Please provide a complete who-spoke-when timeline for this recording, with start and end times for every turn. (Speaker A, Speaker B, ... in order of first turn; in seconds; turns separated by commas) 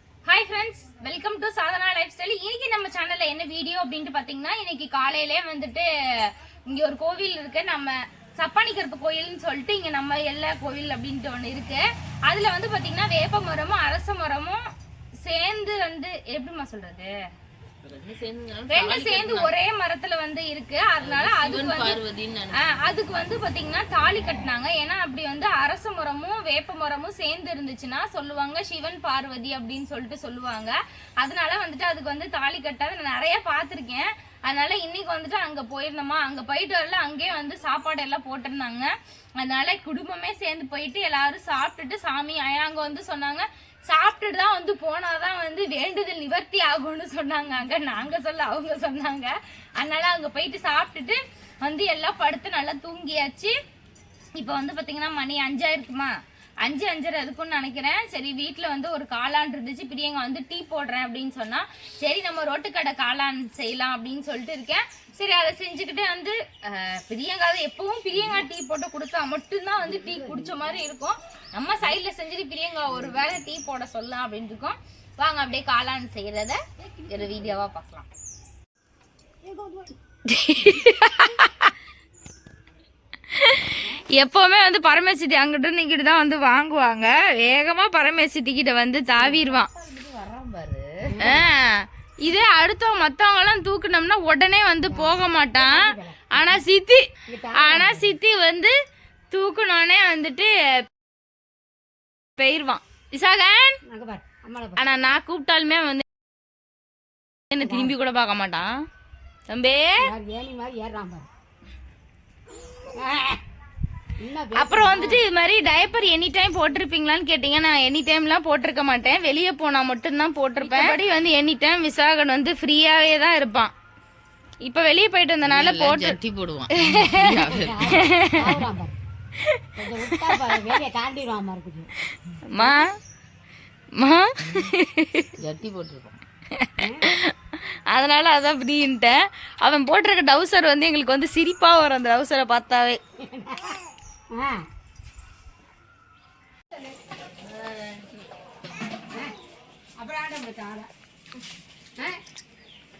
Speaker A: 0.2-14.6, Speaker A: 15.2-17.1, Speaker B: 17.8-19.5, Speaker A: 18.7-22.0, Speaker B: 21.0-22.6, Speaker A: 22.5-53.5, Speaker A: 54.3-78.0, Speaker C: 70.0-70.6, Speaker C: 79.4-79.9, Speaker A: 80.3-81.7, Speaker A: 83.3-89.7, Speaker C: 89.4-91.4, Speaker B: 89.8-90.8, Speaker A: 91.2-97.1, Speaker C: 94.9-96.4, Speaker C: 97.3-98.2, Speaker A: 97.6-98.7, Speaker A: 99.3-100.8, Speaker A: 102.4-103.8, Speaker C: 103.8-104.8, Speaker A: 104.8-106.0, Speaker A: 107.5-108.7, Speaker C: 107.6-107.9, Speaker A: 109.5-110.1, Speaker C: 110.0-111.3, Speaker C: 113.0-113.4, Speaker C: 114.2-115.2, Speaker A: 114.5-123.7, Speaker C: 120.6-120.9, Speaker A: 124.6-126.2, Speaker B: 125.4-128.1, Speaker A: 126.8-128.6, Speaker C: 127.3-129.0, Speaker A: 129.4-130.4, Speaker C: 129.8-131.9, Speaker A: 132.4-132.9, Speaker A: 134.0-135.3, Speaker B: 135.4-136.2, Speaker A: 136.5-143.0, Speaker C: 136.8-137.1, Speaker C: 143.2-143.8, Speaker C: 144.3-144.7, Speaker A: 147.5-147.9, Speaker C: 150.0-150.9, Speaker C: 152.0-152.2